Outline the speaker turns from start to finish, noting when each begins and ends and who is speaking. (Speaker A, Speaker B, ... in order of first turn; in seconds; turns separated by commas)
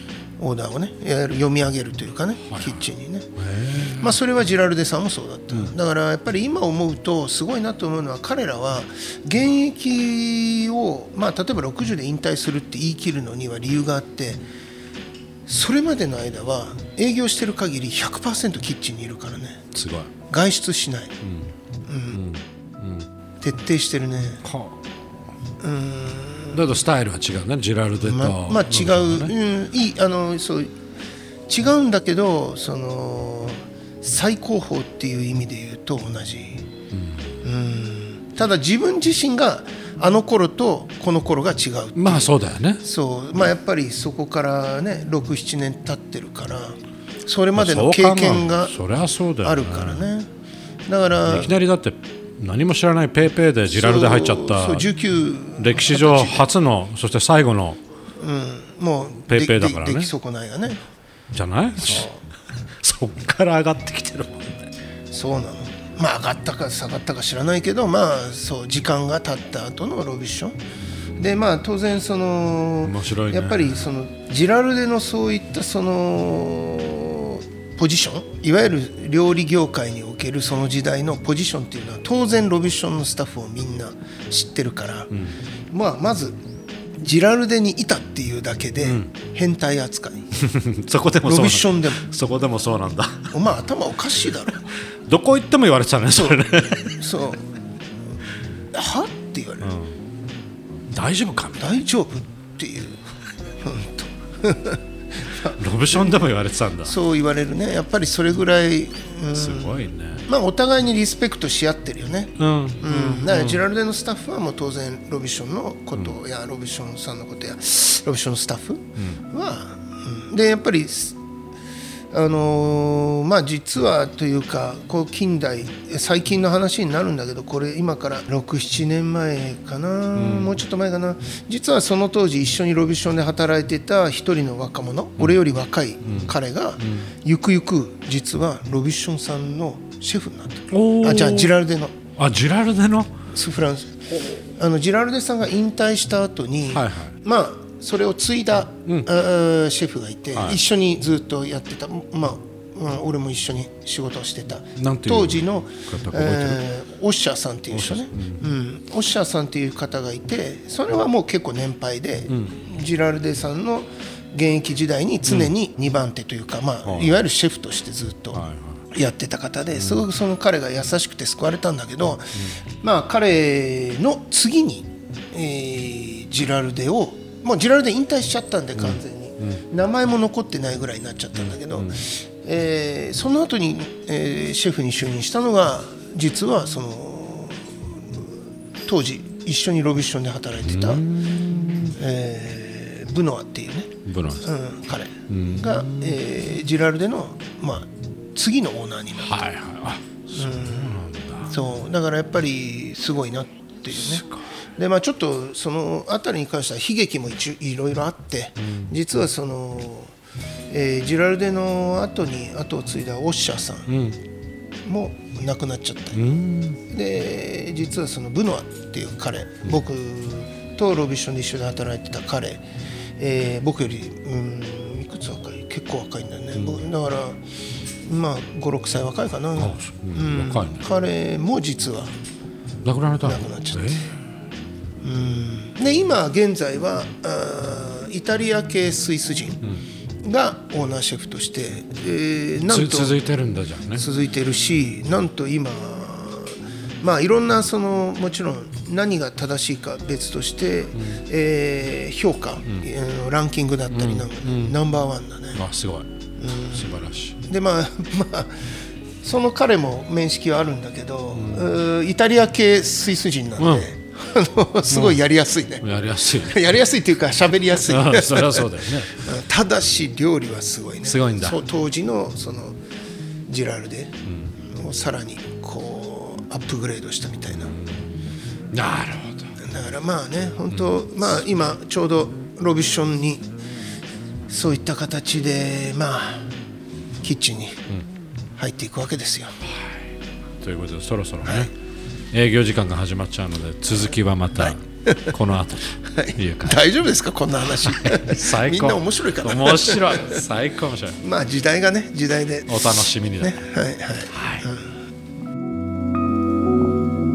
Speaker A: 0.4-3.3, Speaker B: 2.5-4.2, Speaker A: 4.0-14.4, Speaker A: 15.5-19.6, Speaker B: 19.7-20.1, Speaker A: 20.3-21.1, Speaker B: 21.2-21.5, Speaker A: 21.9-22.2, Speaker B: 22.1-23.1, Speaker A: 23.4-24.4, Speaker B: 24.4-24.9, Speaker A: 25.6-26.6, Speaker B: 26.5-29.3, Speaker A: 28.0-30.7, Speaker A: 31.5-36.7, Speaker B: 36.9-37.3, Speaker A: 37.4-48.8, Speaker B: 42.0-42.8, Speaker B: 47.5-50.1, Speaker A: 49.4-50.3, Speaker A: 50.9-51.5, Speaker B: 51.2-54.9, Speaker A: 53.7-56.5, Speaker B: 55.6-57.8, Speaker A: 58.2-60.8, Speaker B: 59.3-60.1, Speaker B: 61.3-62.1, Speaker A: 61.8-62.2, Speaker B: 62.8-64.7, Speaker A: 65.1-70.6, Speaker A: 71.2-85.1, Speaker B: 72.8-73.9, Speaker B: 85.1-85.4, Speaker A: 85.7-86.4, Speaker A: 87.0-90.3, Speaker B: 88.8-89.1, Speaker B: 90.4-93.3, Speaker A: 91.2-92.0, Speaker A: 93.3-94.7, Speaker B: 95.1-97.0, Speaker A: 96.1-97.5, Speaker A: 98.7-99.8, Speaker B: 99.6-100.0, Speaker B: 100.9-101.7, Speaker A: 101.6-106.3, Speaker B: 105.6-107.0, Speaker A: 106.8-121.2, Speaker B: 109.3-110.3, Speaker B: 112.4-113.7, Speaker B: 119.0-119.2, Speaker A: 122.1-141.9, Speaker B: 130.2-130.6, Speaker B: 136.1-137.1, Speaker B: 140.7-141.6, Speaker B: 142.2-143.1, Speaker A: 143.3-188.3, Speaker B: 146.7-147.2, Speaker B: 150.3-150.6, Speaker B: 154.8-156.6, Speaker B: 157.7-158.5, Speaker B: 162.3-162.6, Speaker B: 165.2-165.5, Speaker B: 166.8-167.2, Speaker B: 168.3-168.8, Speaker B: 169.8-170.1, Speaker B: 178.8-179.6, Speaker B: 181.4-182.0, Speaker A: 188.8-191.0, Speaker B: 190.6-192.0, Speaker A: 192.0-199.4, Speaker B: 194.1-194.5, Speaker B: 195.3-196.2, Speaker B: 199.2-201.7, Speaker A: 200.3-204.2, Speaker B: 203.9-204.5, Speaker A: 204.8-210.1, Speaker B: 208.6-209.0, Speaker A: 210.7-214.0, Speaker B: 213.9-214.2, Speaker A: 214.8-216.2, Speaker B: 216.1-216.8, Speaker A: 216.9-222.7, Speaker A: 223.2-227.4, Speaker B: 226.6-226.8, Speaker A: 228.0-232.1, Speaker B: 229.6-230.9, Speaker B: 232.8-234.2, Speaker A: 233.2-234.1, Speaker A: 235.0-239.7, Speaker A: 240.2-243.2, Speaker B: 242.7-244.1, Speaker A: 243.9-255.6, Speaker B: 251.0-251.2, Speaker B: 253.9-254.8, Speaker B: 255.5-257.4, Speaker A: 256.4-272.8, Speaker B: 261.3-261.8, Speaker B: 263.6-263.9, Speaker B: 264.9-265.2, Speaker B: 265.8-266.8, Speaker B: 267.7-269.3, Speaker B: 271.0-271.6, Speaker A: 273.5-277.8, Speaker B: 274.3-274.6, Speaker B: 277.5-278.2, Speaker B: 278.7-279.5, Speaker A: 279.6-283.5, Speaker B: 280.7-281.1, Speaker A: 284.5-286.5, Speaker A: 287.2-287.8, Speaker A: 288.6-289.6, Speaker B: 290.6-291.7, Speaker A: 291.4-291.7, Speaker B: 292.3-296.9, Speaker A: 294.6-295.4, Speaker A: 296.1-300.4, Speaker B: 297.7-301.2, Speaker A: 301.2-304.9, Speaker B: 302.7-303.6, Speaker B: 304.3-304.7